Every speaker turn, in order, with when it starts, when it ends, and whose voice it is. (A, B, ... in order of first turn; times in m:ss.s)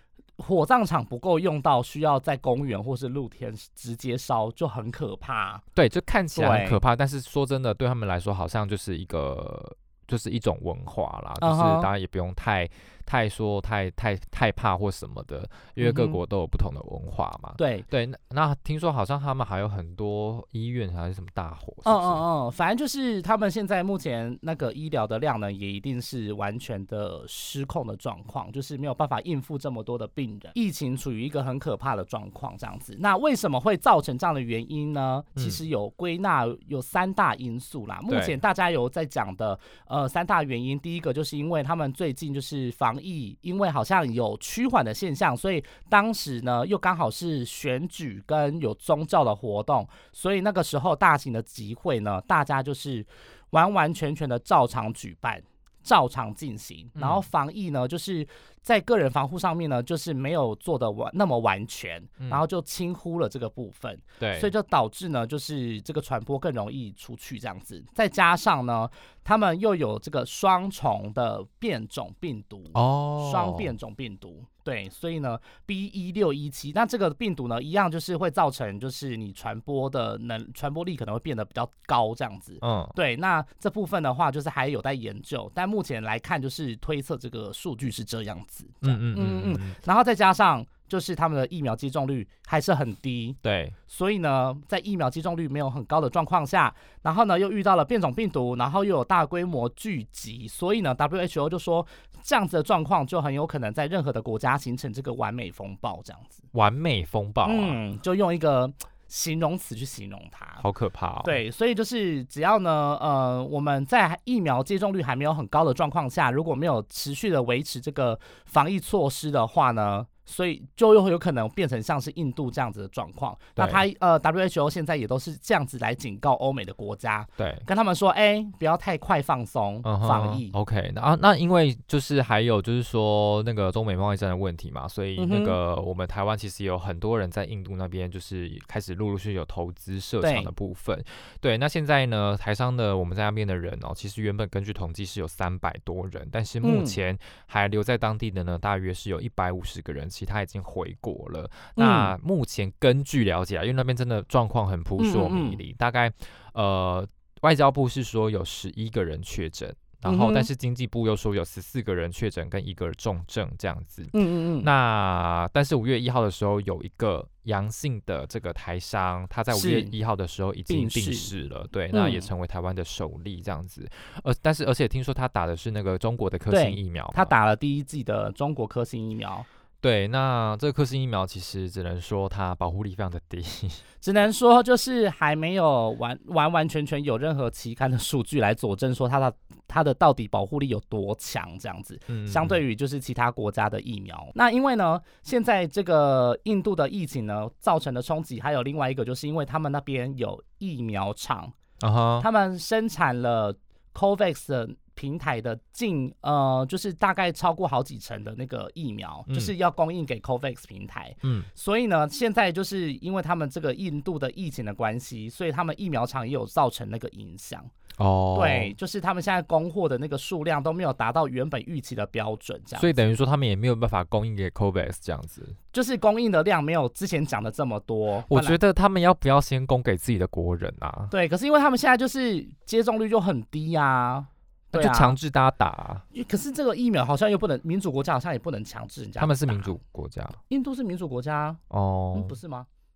0:00.4-0:05.6 A
0:05.8-0:22.2 B
0:06.4-0:06.8 A
0:11.4-0:11.9 A
0:15.8-0:16.2 A
0:17.6-0:17.9 A
0:21.8-1:46.5 A
0:38.1-0:38.4 B
0:57.0-0:57.3 B
1:04.2-1:04.5 B
1:12.8-1:13.7 B
1:22.6-1:23.0 B
1:28.8-1:29.8 B
1:33.4-1:33.8 B
1:46.5-1:47.8 B
1:47.4-1:50.6 A
1:50.6-1:51.4 B
1:51.2-2:10.6 A
2:03.6-2:03.8 B
2:07.4-2:07.7 B
2:09.8-2:57.3 B
2:15.2-2:15.6 A
2:20.2-2:20.5 A
2:26.6-2:27.0 A
2:31.8-2:32.1 A
2:35.0-2:35.6 A
2:40.0-2:40.5 A
2:44.1-2:44.7 A
2:49.5-2:49.9 A
2:50.7-2:51.3 A
2:51.9-2:52.3 A
2:56.5-2:59.5 A
2:59.8-3:03.8 B
3:04.0-3:21.6 A
3:12.1-3:12.6 B
3:21.8-3:22.3 B
3:22.2-3:37.7 A
3:29.3-3:29.5 B
3:31.2-3:31.5 B
3:38.0-3:38.7 B
3:38.3-3:42.9 A
3:42.8-3:45.6 B
3:45.7-3:48.6 A
3:48.3-3:51.1 B
3:51.1-3:55.2 A
3:54.7-3:56.0 B
3:56.1-3:59.8 A
3:59.2-4:00.4 B
4:00.5-4:01.6 A
4:01.7-4:02.4 B
4:02.1-4:02.7 A